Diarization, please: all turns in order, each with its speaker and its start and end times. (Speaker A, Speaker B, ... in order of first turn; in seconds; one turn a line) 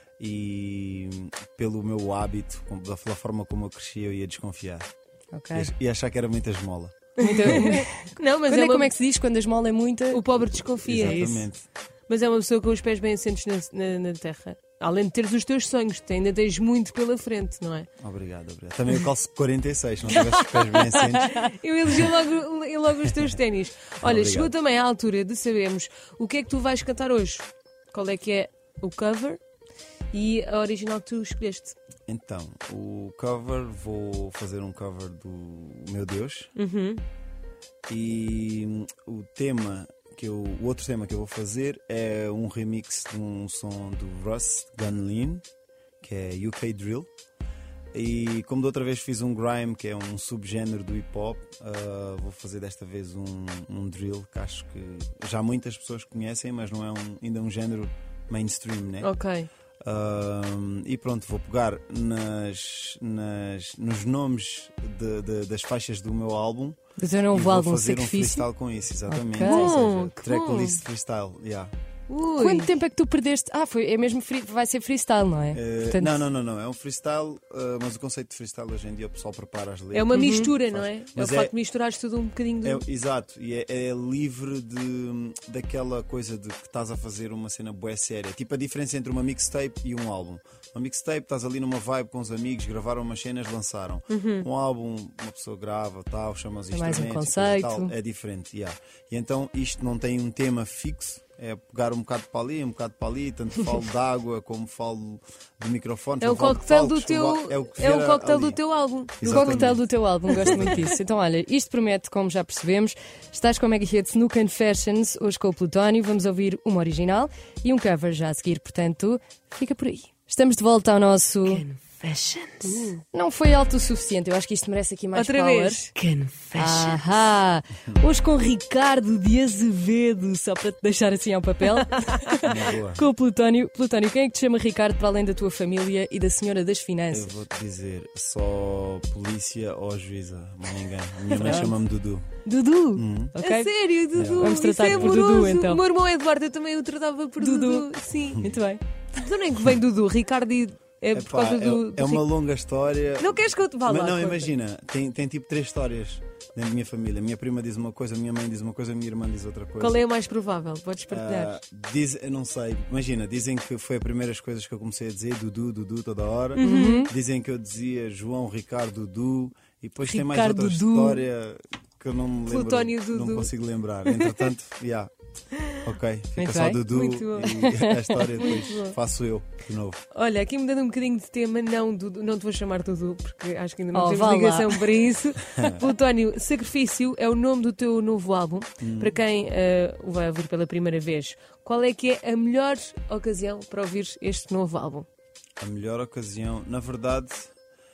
Speaker A: 0.2-4.9
Speaker B: 5.3-5.7
Speaker A: 5.5-7.7
Speaker C: 7.2-8.9
Speaker B: 7.2-11.4
Speaker C: 10.1-11.4
Speaker A: 10.8-11.7
Speaker C: 12.1-17.9
Speaker A: 18.0-21.5
Speaker C: 20.1-29.4
Speaker A: 24.0-24.5
Speaker C: 30.1-31.8
Speaker A: 32.1-36.5
Speaker C: 36.5-37.0
Speaker A: 37.9-45.4
Speaker A: 46.0-47.1
Speaker A: 47.9-59.1
Speaker C: 59.0-59.5
Speaker A: 59.8-66.8
Speaker B: 67.0-68.5
Speaker A: 67.3-71.7
Speaker B: 69.1-69.7
Speaker C: 69.4-70.8
Speaker C: 72.1-72.7
Speaker B: 72.3-76.2
Speaker A: 75.5-81.5
Speaker C: 79.9-82.8
Speaker B: 80.1-80.5
Speaker A: 82.6-108.6
Speaker C: 94.1-94.5
Speaker B: 96.7-97.9
Speaker C: 106.2-110.7
Speaker A: 109.2-111.0
Speaker B: 109.2-121.6
Speaker C: 121.4-123.0
Speaker B: 122.6-125.9
Speaker C: 125.1-127.2
Speaker B: 126.5-137.3
Speaker C: 131.8-132.3
Speaker A: 132.4-133.1
Speaker A: 137.1-142.3
Speaker B: 141.3-141.8
Speaker B: 142.4-143.7
Speaker A: 142.9-143.3
Speaker C: 143.4-148.5
Speaker A: 144.1-145.2
Speaker B: 144.3-145.8
Speaker B: 147.4-148.8
Speaker C: 149.1-152.2
Speaker A: 151.1-160.0
Speaker C: 153.2-154.5
Speaker C: 159.8-161.6
Speaker A: 161.1-175.1
Speaker C: 166.6-167.1
Speaker B: 166.6-167.1
Speaker C: 170.1-171.2
Speaker C: 172.5-174.5
Speaker A: 175.8-180.0
Speaker B: 176.3-176.8
Speaker C: 176.9-177.7
Speaker B: 177.5-178.6
Speaker C: 178.4-179.0
Speaker C: 180.1-195.1
Speaker B: 183.9-184.9
Speaker A: 185.6-185.8
Speaker A: 188.8-189.2
Speaker A: 195.6-197.5